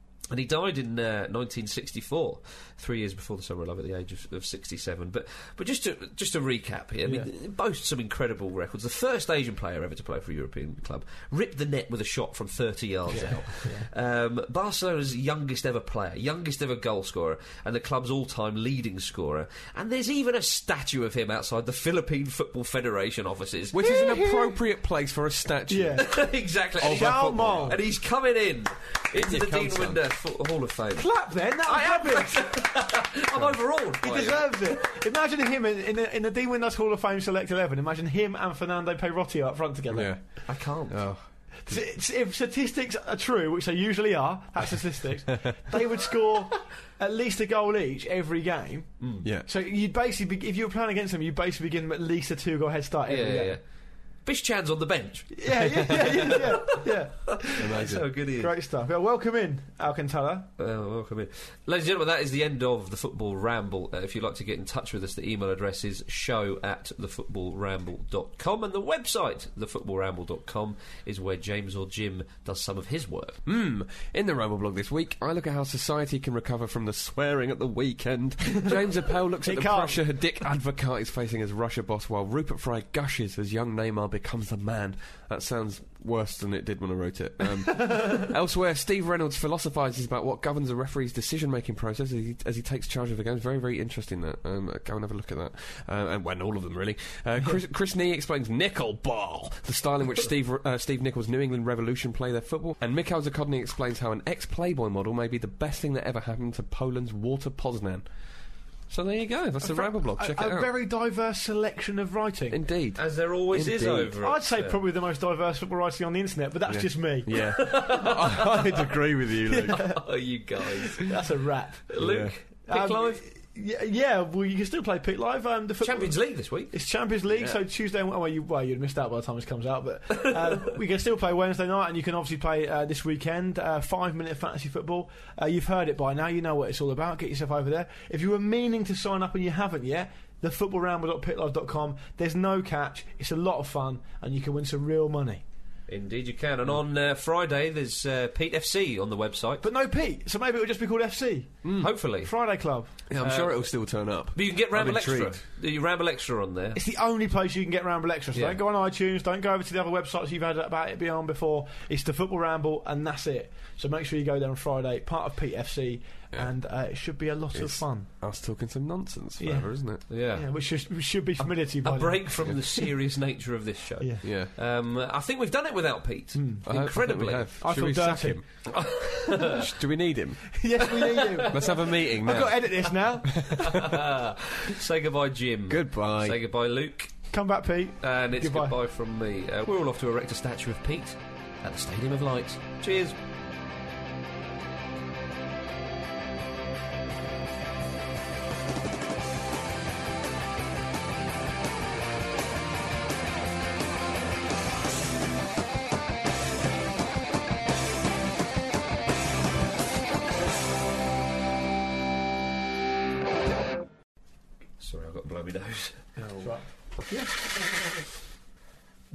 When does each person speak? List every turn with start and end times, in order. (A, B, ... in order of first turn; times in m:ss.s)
0:00.3-0:23.8 A
0:13.1-0:13.9 B
0:23.7-0:26.1 C
0:23.8-0:24.6 B
0:25.7-0:26.3 B
0:26.0-0:34.7 A
0:26.8-0:27.8 C
0:26.8-0:27.8 B
0:29.1-0:30.0 C
0:31.0-0:33.0 B
0:34.0-0:40.4 B
0:39.9-0:41.8 C
0:40.4-0:41.0 A
0:41.6-0:53.6 B
0:49.0-0:49.3 A
0:53.1-0:53.6 A
0:54.2-0:58.5 A
0:55.3-1:00.5 B
0:57.6-0:58.1 C
1:00.6-1:13.4 A
1:13.4-1:48.1 C
1:19.4-1:20.0 B
1:48.9-1:50.7 C
1:49.6-1:52.6 B
1:52.5-1:54.2 C
1:53.0-1:54.8 A
1:54.2-1:57.5 B
1:56.6-2:00.0 C
1:57.3-1:58.8 A
1:59.4-2:00.1 B
1:59.7-2:01.2 A
2:00.6-2:02.0 B
2:01.9-2:03.2 A
2:02.0-2:02.3 C
2:02.7-2:25.4 B
2:05.8-2:06.7 A
2:07.3-2:07.6 C
2:25.9-2:29.6 A
2:29.6-2:31.7 B
2:31.6-2:31.9 C
2:31.8-2:32.3 A
2:32.2-2:32.9 B
2:33.1-2:35.4 C
2:33.2-2:33.7 A
2:34.3-2:36.8 A
2:36.7-2:48.1 B
2:38.3-2:38.6 A
2:47.5-2:50.0 C
2:49.4-2:52.8 B
2:50.1-2:50.5 A
2:51.8-2:57.5 A
2:54.2-2:54.5 C
2:56.3-2:56.7 B
2:56.6-3:00.6 C
2:57.6-2:58.4 B
2:58.7-2:59.6 A
3:00.5-3:03.5 B
3:00.8-3:01.9 A
3:01.5-3:04.0 C
3:03.4-3:07.1 A
3:05.7-3:06.4 C
3:07.3-3:08.8 B
3:08.0-3:13.1 A
3:34.8-3:36.5 A
3:36.2-3:37.3 B